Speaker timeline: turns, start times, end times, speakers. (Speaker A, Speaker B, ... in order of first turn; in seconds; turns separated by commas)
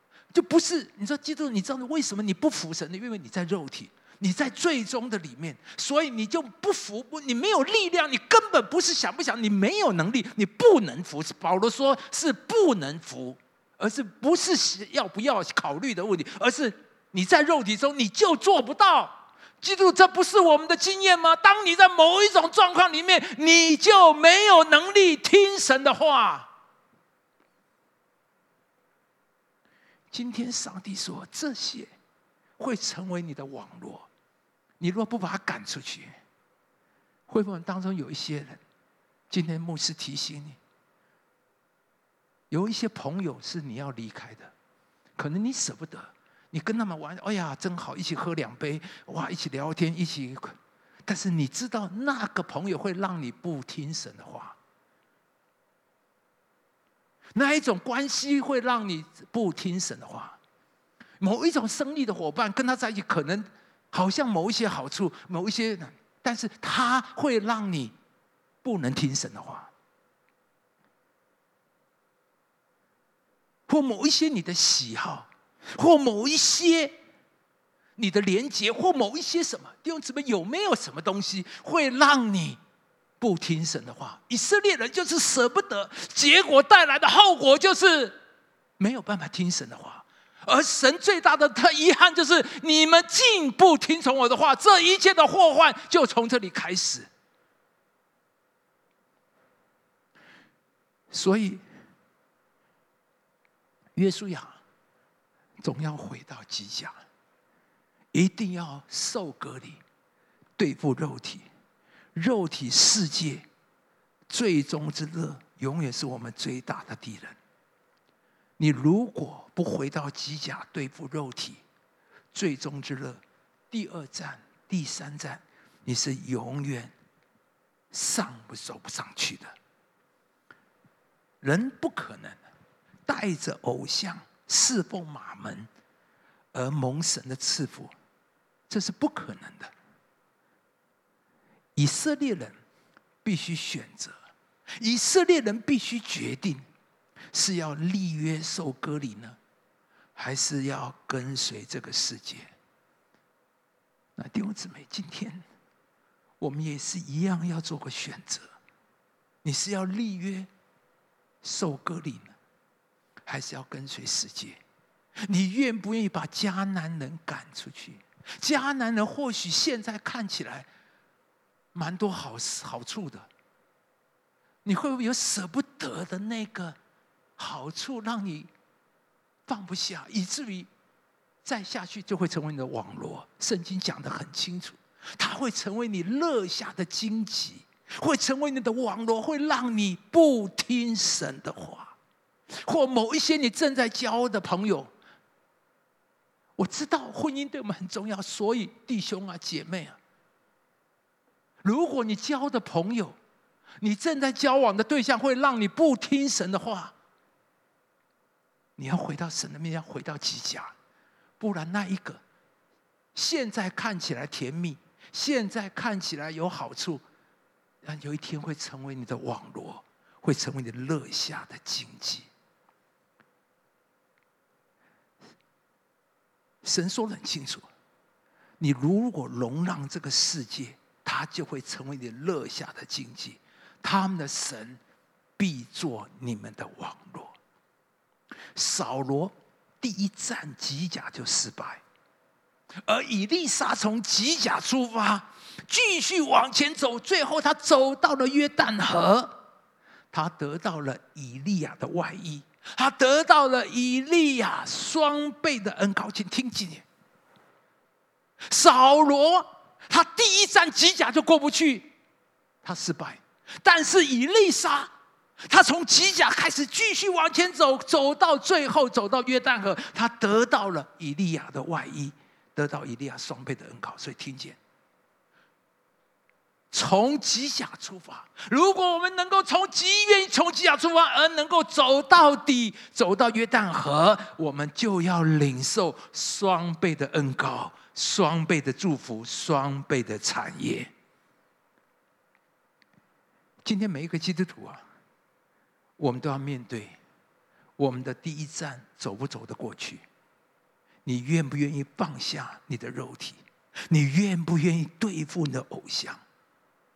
Speaker A: 0.3-26.5, Speaker A: 30.1-31.9, Speaker A: 32.6-34.1, Speaker A: 34.8-36.2, Speaker A: 37.3-38.6, Speaker A: 39.3-40.6, Speaker A: 42.5-44.5, Speaker A: 45.2-50.6, Speaker A: 51.1-54.6, Speaker A: 57.3-60.4, Speaker A: 61.2-68.0, Speaker A: 68.6-69.7, Speaker A: 73.7-77.0, Speaker A: 78.0-82.6, Speaker A: 83.2-88.2, Speaker A: 88.8-97.1, Speaker A: 101.1-101.6, Speaker A: 104.0-104.6, Speaker A: 105.6-107.0, Speaker A: 108.1-109.8, Speaker A: 110.6-111.5, Speaker A: 112.2-113.5, Speaker A: 114.3-117.4, Speaker A: 118.6-121.6, Speaker A: 122.3-126.9, Speaker A: 127.9-129.5, Speaker A: 131.4-132.4, Speaker A: 133.1-135.7, Speaker A: 136.5-137.9, Speaker A: 138.7-139.7, Speaker A: 141.8-142.5, Speaker A: 143.2-144.2, Speaker A: 144.8-146.7, Speaker A: 147.3-149.4, Speaker A: 150.2-152.5, Speaker A: 154.2-155.4, Speaker A: 156.4-158.5, Speaker A: 159.4-160.5, Speaker A: 161.4-162.3, Speaker A: 163.3-164.6, Speaker A: 165.3-170.7, Speaker A: 171.7-173.3, Speaker A: 174.7-176.8, Speaker A: 177.4-178.5, Speaker A: 179.5-180.7, Speaker A: 181.4-191.9, Speaker A: 192.7-194.9, Speaker A: 196.6-200.0, Speaker A: 201.6-203.2, Speaker A: 203.8-206.9, Speaker A: 208.8-210.7, Speaker A: 211.4-212.2, Speaker A: 213.2-217.0, Speaker A: 217.8-222.3, Speaker A: 226.6-227.7, Speaker A: 228.6-234.8, Speaker A: 235.4-237.3, Speaker A: 238.5-241.8, Speaker A: 242.9-249.3, Speaker A: 250.1-256.9, Speaker A: 258.5-261.9, Speaker A: 262.6-264.9, Speaker A: 265.5-274.6, Speaker A: 276.7-290.9, Speaker A: 293.6-294.8, Speaker A: 296.0-297.0, Speaker A: 297.8-300.0, Speaker A: 301.0-306.2